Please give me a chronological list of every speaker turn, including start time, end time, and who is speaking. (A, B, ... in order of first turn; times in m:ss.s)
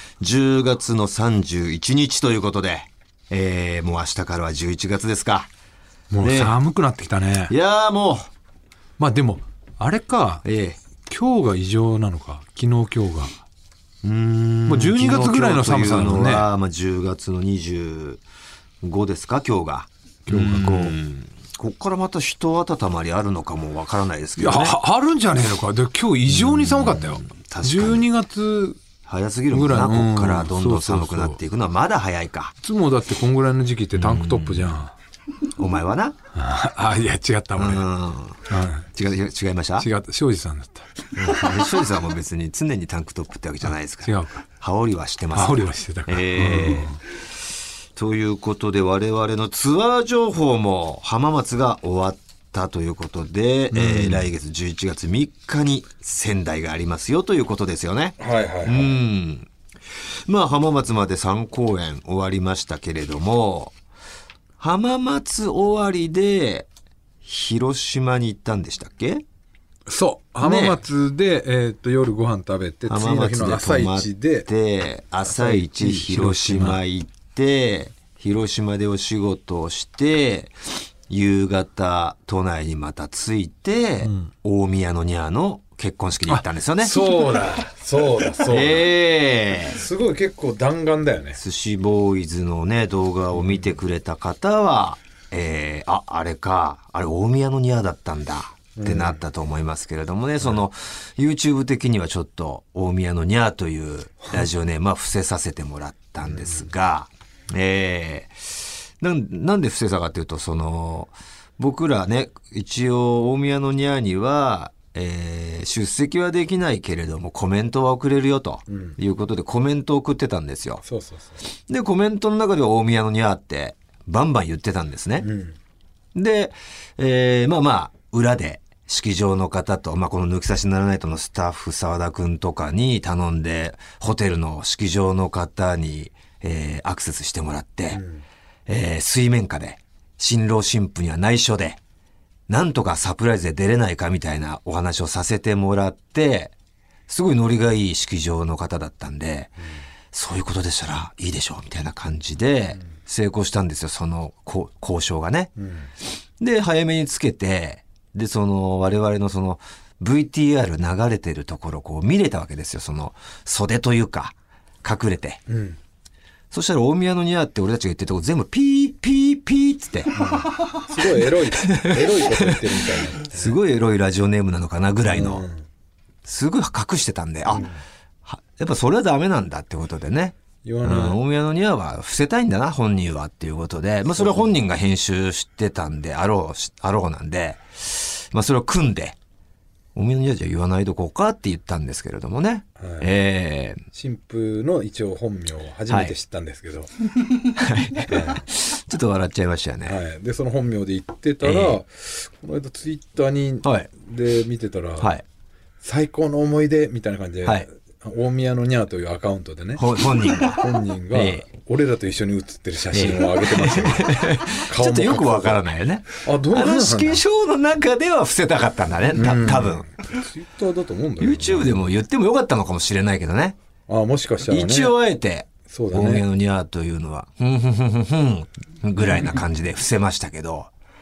0:00.2-0:05.5 A
0:06.1-0:07.5 B
0:06.2-0:06.5 A
0:07.5-0:08.3 A
0:09.0-0:10.4 B
0:10.4-0:10.8 A
0:11.1-0:13.4 B
0:14.0-0:18.2 A
0:14.7-0:16.5 B
0:18.8-0:24.8 A
0:20.3-0:21.2 B
0:24.4-0:28.8 B
0:26.3-0:28.0 A
0:29.1-0:32.5 A
0:29.5-0:31.4 B
0:32.6-0:34.9 B
0:34.0-0:34.7 A
0:35.6-0:36.2 A
0:36.3-0:37.9 B
0:37.6-0:39.9 A
0:38.5-0:38.9 B
0:39.8-0:40.9 B
0:41.2-0:47.0 A
0:43.7-0:44.4 B
0:45.3-0:47.0 B
0:48.0-0:59.5 A
0:53.7-0:54.3 B
0:58.2-0:59.0 B
1:00.3-1:03.8 A
1:04.6-1:06.7 A
1:07.2-1:09.2 A
1:09.9-1:14.5 B
1:10.4-1:10.8 A
1:12.9-1:20.5 A
1:15.2-1:16.8 B
1:21.1-1:27.2 A
1:24.0-1:24.3 B
1:26.3-1:28.9 B
1:28.4-1:29.8 A
1:29.7-1:31.4 B
1:31.4-2:00.8 A
1:33.3-1:33.8 B
1:38.8-1:39.2 B
1:46.2-1:46.7 B
1:58.7-1:59.0 B
2:00.8-2:01.4 B
2:01.7-2:05.3 A
2:05.2-2:05.6 B
2:06.2-2:18.0 A
2:17.9-2:18.2 B
2:18.7-2:21.8 A
2:22.5-2:26.5 A
2:27.1-2:29.5 A
2:30.1-2:35.5 A
2:35.6-2:35.9 B
2:36.4-2:45.4 A
2:45.5-2:45.8 B
2:46.5-2:50.4 A
2:50.2-2:53.6 B
2:51.6-2:52.6 A
2:53.2-2:55.5 A
2:55.1-2:55.7 B
2:56.2-2:57.6 A
2:57.5-2:57.8 B
2:58.2-3:09.2 A
3:00.6-3:01.2 B
3:04.1-3:04.5 B
3:10.0-3:13.8 A
3:12.8-3:13.1 B
3:13.9-3:16.9 B
3:17.5-3:20.0 A
3:18.1-3:18.4 B
3:19.8-3:25.2 B
3:21.4-3:21.8 A
3:23.6-3:23.9 A
3:25.0-3:25.2 A
3:25.8-3:37.2 B
3:29.8-3:31.4 A
3:32.9-3:39.9 A
3:39.1-3:41.8 B
3:41.2-3:43.6 A
3:43.9-3:44.9 B
3:44.5-3:50.7 A
3:45.6-3:46.3 B